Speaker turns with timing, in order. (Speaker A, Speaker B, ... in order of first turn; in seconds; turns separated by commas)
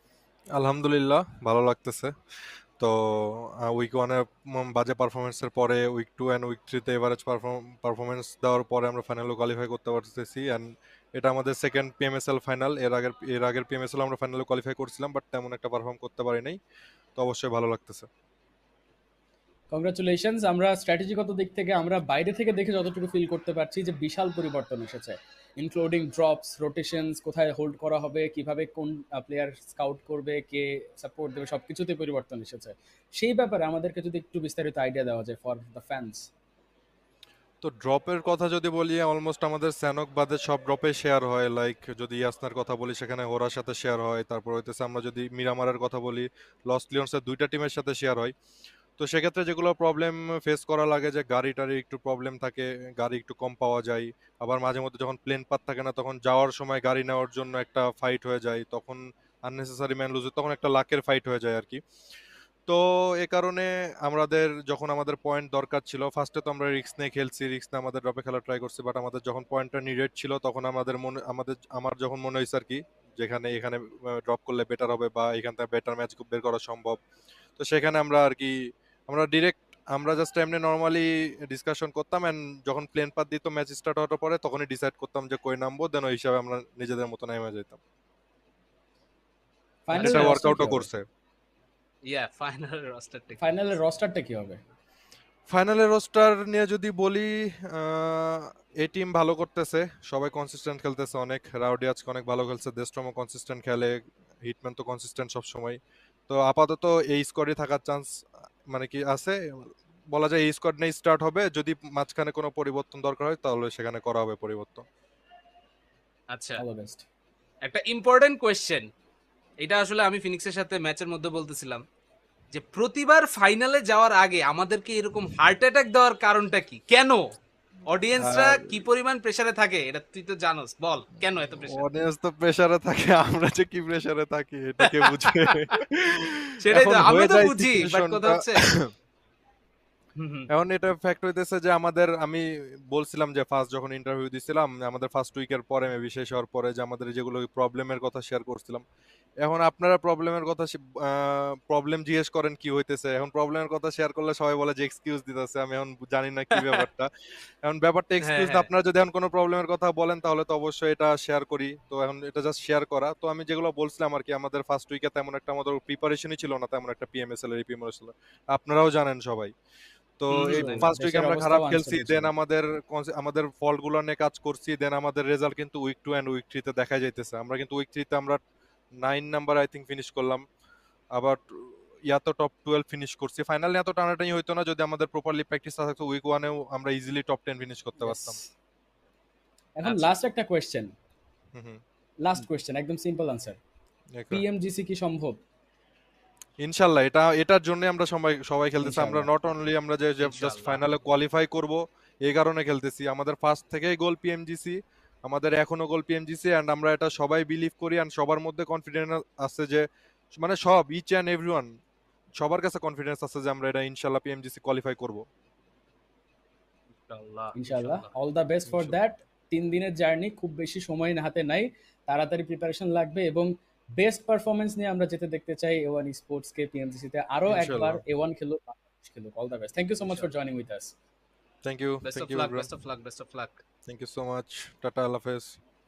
Speaker A: 0.6-2.1, Speaker A: 2.8-16.6, Speaker A: 17.2-18.1, Speaker B: 19.7-36.3, Speaker A: 37.6-48.3, Speaker A: 49.0-61.8, Speaker A: 62.7-77.0, Speaker A: 77.6-87.8, Speaker B: 89.9-90.9, Speaker C: 89.9-90.4, Speaker A: 90.0-91.0, Speaker C: 92.0-93.4, Speaker B: 93.4-94.6, Speaker A: 95.5-105.8, Speaker A: 106.3-108.1, Speaker A: 108.7-109.3, Speaker A: 110.1-114.8, Speaker C: 116.3-116.6, Speaker B: 116.6-117.0, Speaker C: 117.6-118.8, Speaker C: 119.6-121.8, Speaker C: 122.5-127.2, Speaker C: 127.9-131.9, Speaker A: 128.2-128.8, Speaker A: 131.6-138.9, Speaker C: 135.2-135.6, Speaker C: 136.6-138.7, Speaker C: 140.2-140.5, Speaker A: 140.5-148.8, Speaker A: 149.4-157.1, Speaker A: 157.6-169.5, Speaker C: 158.2-158.7, Speaker A: 170.2-178.4, Speaker C: 170.3-170.9, Speaker B: 170.5-172.3, Speaker A: 179.0-180.4, Speaker A: 181.1-188.4, Speaker B: 188.0-188.4, Speaker B: 189.8-190.9, Speaker C: 189.8-190.1, Speaker A: 191.5-191.8, Speaker B: 192.2-193.6, Speaker A: 194.1-194.4, Speaker B: 194.3-195.4, Speaker A: 196.6-211.7, Speaker B: 198.8-199.3, Speaker C: 200.2-200.9, Speaker A: 212.4-215.2, Speaker C: 217.0-218.1, Speaker B: 217.5-230.9, Speaker A: 218.7-218.9, Speaker A: 227.5-228.0, Speaker C: 230.0-230.3, Speaker A: 231.6-232.7, Speaker C: 232.0-233.6, Speaker A: 233.8-235.6